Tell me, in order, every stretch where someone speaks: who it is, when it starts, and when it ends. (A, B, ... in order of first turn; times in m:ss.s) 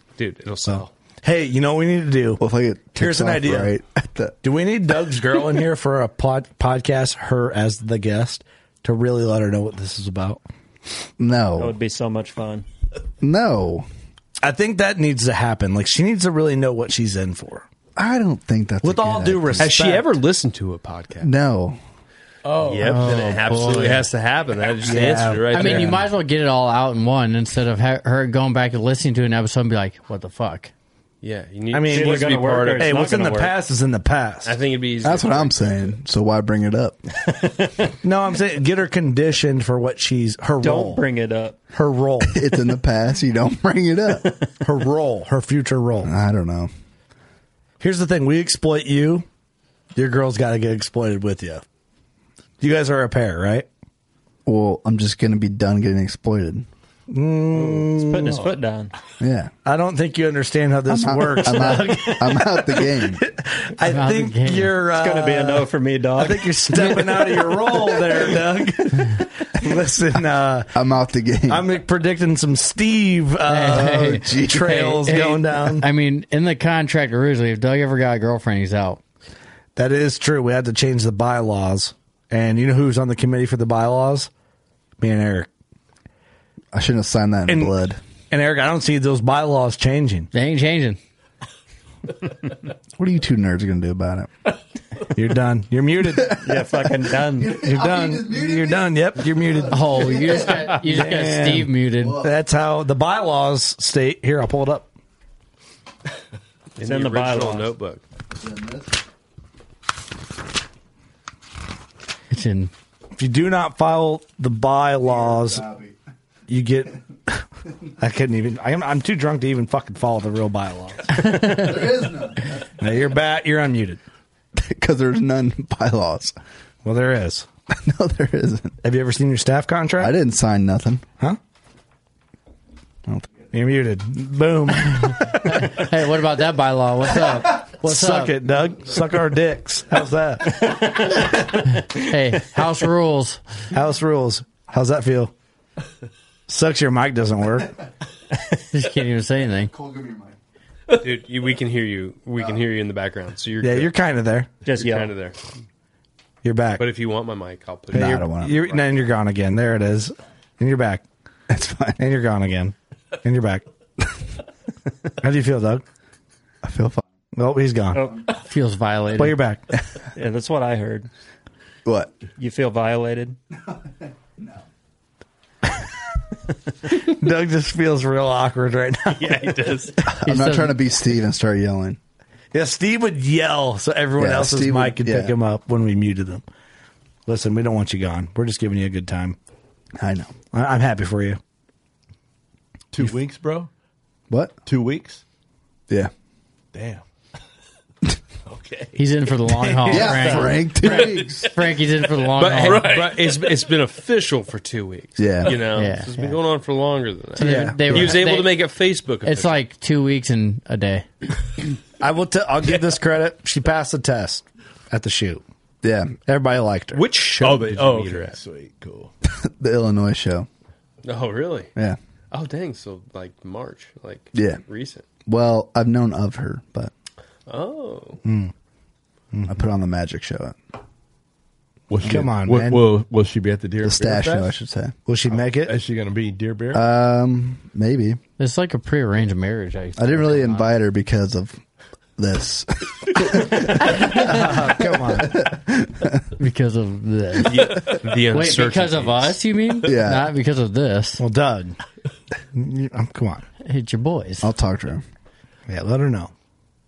0:00.2-0:00.9 A
0:00.7-0:02.4 B
0:02.4-0:04.4 C
0:03.0-0:03.7 B
0:04.4-0:10.4 B
0:11.2-0:11.7 C
0:11.6-0:12.6 D
0:13.2-0:13.9 C
0:14.4-0:17.6 B
0:18.0-0:19.8 C
0:18.8-0:20.2 B
0:19.6-0:21.3 A
0:21.2-0:21.8 C
0:22.4-0:23.7 E
0:22.6-0:26.0 A
0:22.8-0:24.1 F
0:24.8-0:26.0 B
0:25.5-0:30.7 F
0:31.2-0:33.1 A
0:31.7-0:34.6 B
0:31.9-0:33.6 D
0:34.4-0:35.6 A
0:35.0-0:37.0 C
0:38.0-0:41.0 B
0:40.6-0:41.6 D
0:41.7-0:42.3 B
0:42.2-0:44.3 C
0:44.6-0:46.1 B
0:46.0-0:46.7 C
0:47.8-0:49.2 B
0:49.9-0:51.6 B
0:52.6-0:53.6 B
0:54.4-0:56.6 C
0:57.1-0:58.6 B
0:57.6-0:58.9 D
0:59.2-0:59.5 C
0:59.6-1:10.7 B
1:00.9-1:03.2 C
1:03.8-1:04.7 F
1:04.9-1:07.5 D
1:10.7-1:11.7 C
1:11.5-1:15.9 B
1:13.4-1:19.0 F
1:13.8-1:14.8 C
1:19.7-1:24.3 B
1:25.0-1:25.5 B
1:26.7-1:28.0 C
1:27.5-1:27.7 B
1:28.3-1:30.3 B
1:30.3-1:31.0 F
1:33.0-1:34.3 C
1:35.1-1:36.4 B
1:36.1-1:40.7 C
1:36.4-1:37.6 D
1:37.5-1:44.9 B
1:39.7-1:42.2 F
1:42.0-1:42.3 C
1:46.8-1:48.0 A
1:46.8-1:47.7 D
1:48.3-1:48.9 C
1:52.3-1:52.7 F
1:53.2-1:55.6 B
1:55.0-1:56.0 C
1:56.5-1:57.4 B
1:58.0-2:01.8 B
2:01.2-2:02.9 C
2:02.8-2:04.0 B
2:04.5-2:06.4 C
2:06.8-2:07.5 B
2:07.7-2:08.8 C
2:08.8-2:10.1 B
2:10.0-2:11.0 C
2:13.5-2:15.8 B
2:15.1-2:18.4 F
2:17.5-2:21.1 B
2:21.9-2:23.4 F
2:23.7-2:25.3 B
2:26.5-2:27.7 B
2:28.7-2:29.7 F
2:29.7-2:30.3 C
2:30.9-2:33.9 A
2:33.6-2:34.5 B
2:34.6-2:35.1 D
2:34.7-2:35.4 A
2:36.4-2:36.8 B
2:36.8-2:39.0 A
2:37.9-2:38.6 C
2:37.9-2:41.0 B
2:41.5-2:42.0 C
2:42.0-2:43.6 B
2:45.2-2:45.8 B
2:46.6-2:47.0 C
2:47.3-2:48.0 B
2:47.9-2:48.3 D
2:48.4-2:49.4 F
2:49.2-2:49.6 B
2:50.1-2:51.1 D
2:51.8-2:52.1 C
2:52.4-2:53.4 D
2:56.9-2:59.8 B
2:59.1-2:59.9 A
3:00.0-3:02.0 C
3:00.2-3:00.8 F
3:02.5-3:06.4 B
3:04.2-3:05.4 C
3:07.2-3:09.4 B
3:10.0-3:10.3 C
3:10.5-3:11.4 B
3:12.9-3:13.7 E
3:14.3-3:14.6 C
3:14.6-3:15.2 E
3:16.7-3:17.0 E
3:18.5-3:20.1 E
3:19.0-3:22.9 F
3:19.8-3:21.5 C
3:20.9-3:21.1 E
3:22.0-3:23.6 E
3:22.4-3:29.6 A
3:25.2-3:25.6 C
3:25.6-3:26.4 F
3:27.4-3:28.6 F
3:27.4-3:28.2 B
3:29.2-3:31.1 F
3:32.0-3:35.4 B
3:35.8-3:36.1 C
3:36.2-3:37.0 B
3:36.9-3:38.4 A
3:37.4-3:39.1 E
3:39.2-3:40.5 C
3:41.0-3:41.7 A
3:42.3-3:45.0 A
3:44.3-3:44.6 C
3:45.2-3:46.9 C
3:47.5-3:48.2 A
3:48.2-3:48.5 B
3:49.3-3:49.6 B
3:49.5-3:50.5 C
3:51.9-3:54.6 E
3:52.0-3:52.9 B
3:53.8-3:54.9 C
3:55.1-3:55.8 B
3:55.3-3:56.8 E
3:56.7-3:58.2 C
3:58.4-4:00.7 F
4:00.0-4:01.6 C
4:02.2-4:06.2 C
4:03.9-4:05.4 B
4:06.4-4:11.2 F
4:07.4-4:09.4 A
4:09.8-4:10.3 C
4:11.2-4:11.8 B
4:12.5-4:13.4 B
4:13.6-4:14.5 F
4:14.4-4:15.0 C
4:15.7-4:16.3 B